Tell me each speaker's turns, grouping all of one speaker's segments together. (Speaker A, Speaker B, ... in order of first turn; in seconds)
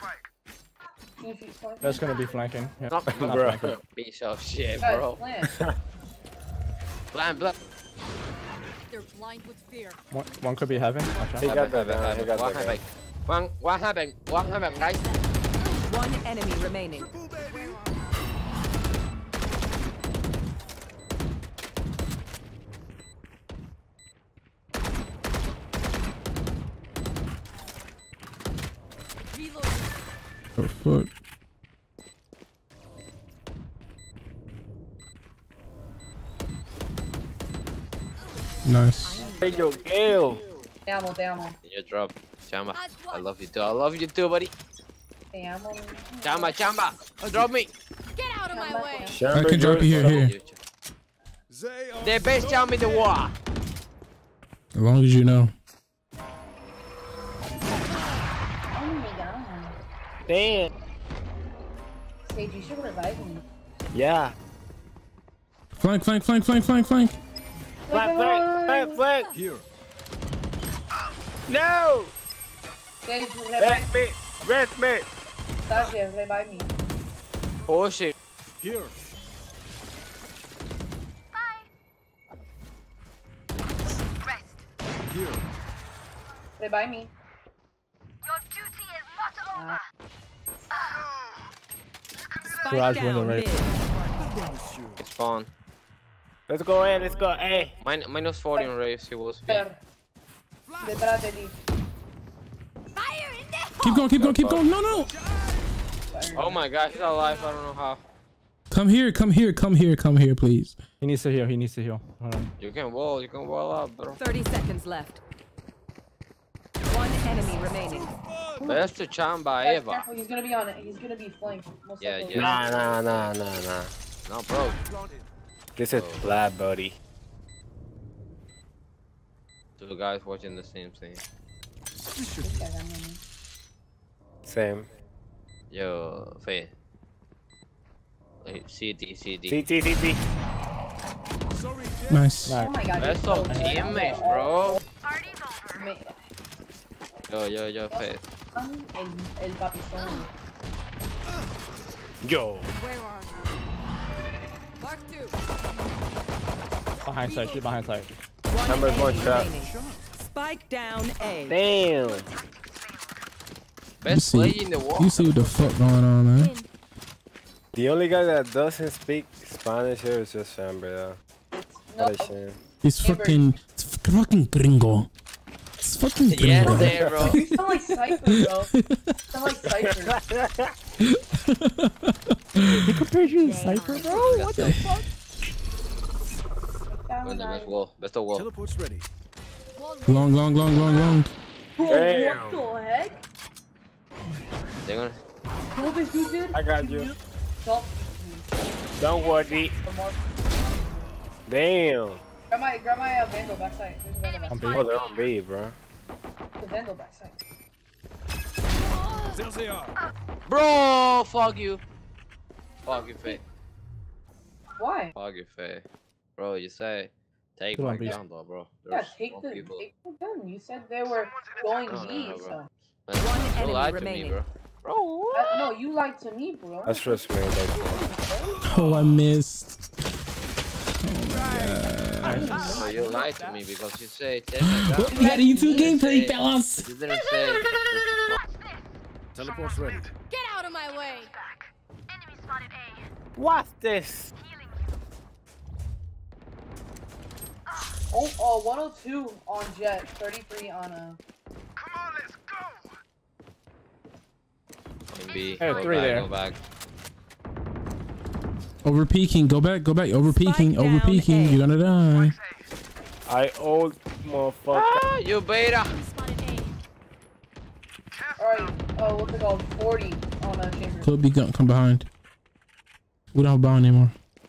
Speaker A: 1.2-2.1, 4.8-5.5, 40.9-41.6, 45.3-46.6, 48.5-49.3, 58.7-59.8, 62.3-63.4, 67.9-69.0, 73.0-73.9, 75.7-76.7, 86.6-87.1, 99.5-99.8, 100.8-101.6, 106.1-106.6, 119.6-122.7, 132.4-133.2, 142.6-144.8, 145.8-146.2, 147.9-150.3, 171.5-172.3, 173.0-173.5, 177.2-178.7, 179.3-180.2, 186.9-187.8, 191.8-193.2, 195.8-198.5, 199.4-201.1, 202.5-204.9, 206.6-207.4, 214.8-215.1, 218.9-222.7, 225.3-227.2, 228.0-228.6, 232.3-233.2, 235.1-235.9, 248.1-251.2, 268.4-271.1
Speaker B: 1.8-3.8, 10.1-11.6, 92.7-93.5, 111.0-112.5, 142.4-142.7, 143.5-144.3, 157.1-158.1, 182.8-185.0, 204.5-204.9, 217.8-218.2, 232.2-233.0, 255.6-256.3
Speaker C: 2.9-5.2, 7.1-7.5, 11.4-15.0, 41.6-44.5, 46.2-47.7, 49.7-50.6, 52.0-53.3, 77.7-78.1, 95.0-95.5, 97.8-99.7, 104.1-104.7, 106.3-108.0, 112.6-114.2, 118.7-120.1, 122.0-123.4, 124.2-124.8, 125.9-126.3, 129.8-131.2, 135.7-136.7, 138.4-139.6, 143.0-144.8, 147.3-148.2, 164.0-165.7, 176.3-177.4, 184.1-184.8, 187.2-188.5, 194.8-195.2, 210.5-211.8, 212.9-213.4, 215.1-215.8, 216.4-219.8, 221.8-225.7, 232.7-238.4, 255.1-256.6, 264.7-266.0
Speaker D: 8.9-10.0, 14.7-15.8, 17.4-17.9, 29.3-30.0, 39.0-39.7, 42.7-43.3, 48.2-49.2, 103.0-104.1, 150.0-150.3, 152.7-153.5, 154.8-155.4, 157.1-157.8, 166.4-166.7, 183.4-184.5, 189.8-191.2, 208.8-209.4, 240.3-241.4, 242.4-242.9, 265.8-266.8
Speaker E: 11.4-12.8, 39.4-40.4, 49.1-50.2, 60.3-60.7, 63.9-64.3, 67.9-69.3, 71.5-72.1, 73.6-75.1, 96.5-97.8, 122.3-123.9, 125.8-127.0, 134.4-134.9, 139.5-140.2, 152.2-152.7, 158.7-159.5, 161.5-162.3, 167.8-171.2, 172.0-172.6, 176.6-177.4, 179.8-180.8, 191.8-192.7, 196.5-197.1, 199.0-199.7, 201.5-202.2, 204.7-205.8, 226.9-228.1, 243.4-244.3, 263.3-265.0
Speaker F: 15.8-17.1, 92.7-93.7, 114.2-115.2, 116.9-118.1, 158.5-159.7, 160.3-161.6, 223.2-224.4, 260.3-261.6
Speaker G: 16.9-17.8, 47.2-47.5, 51.5-53.2, 69.3-69.7, 78.6-78.9, 85.1-85.4, 94.0-95.0, 117.8-118.7, 124.9-125.2, 132.0-132.7, 141.6-142.5, 159.2-160.1, 188.3-189.1, 209.3-209.9, 231.4-231.9, 239.3-240.1
Speaker H: 30.6-31.1, 38.6-39.3, 49.3-50.3, 54.8-55.5, 65.7-67.2, 103.8-105.1, 108.7-110.8, 142.1-142.6, 164.1-166.5, 172.8-175.1, 175.8-177.6, 178.1-179.2, 181.0-183.0, 184.5-184.9, 190.1-191.3, 228.6-229.8, 231.0-232.5, 234.6-238.3, 258.8-262.4, 271.0-272.1, 273.3-274.1